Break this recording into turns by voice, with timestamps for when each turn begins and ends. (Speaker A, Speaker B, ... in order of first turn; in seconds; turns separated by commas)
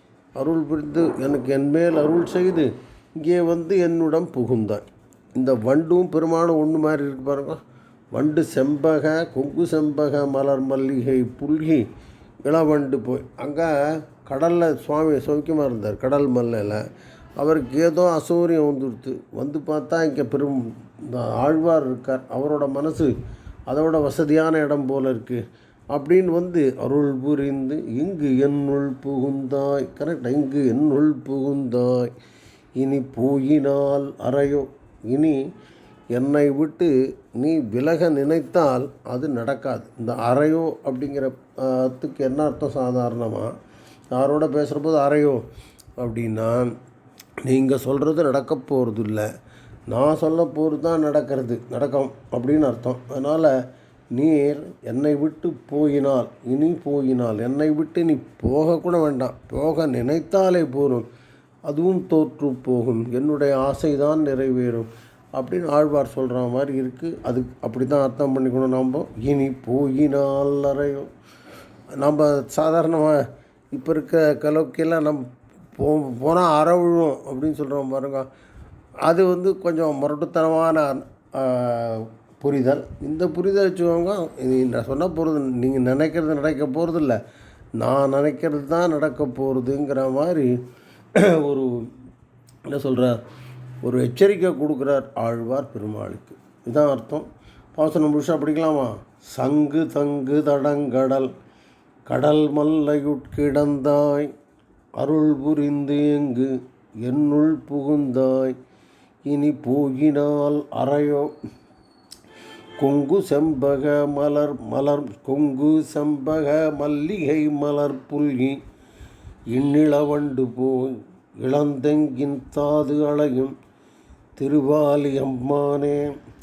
Speaker A: 0.4-4.8, Speaker A: 5.3-7.6, Speaker A: 8.1-11.8, Speaker A: 12.4-16.8, Speaker A: 17.4-23.1, Speaker A: 23.7-32.1, Speaker A: 32.8-35.4, Speaker A: 36.1-43.5, Speaker A: 44.1-45.4, Speaker A: 46.0-46.7, Speaker A: 47.4-49.3, Speaker A: 49.9-53.5, Speaker A: 54.1-61.0, Speaker A: 61.7-71.1, Speaker A: 72.0-78.3, Speaker A: 79.0-87.2, Speaker A: 87.8-90.5, Speaker A: 91.1-91.8, Speaker A: 92.7-93.2, Speaker A: 93.8-101.3, Speaker A: 102.1-104.3, Speaker A: 105.0-108.5, Speaker A: 109.2-111.3, Speaker A: 112.8-118.6, Speaker A: 119.5-123.5, Speaker A: 124.4-126.1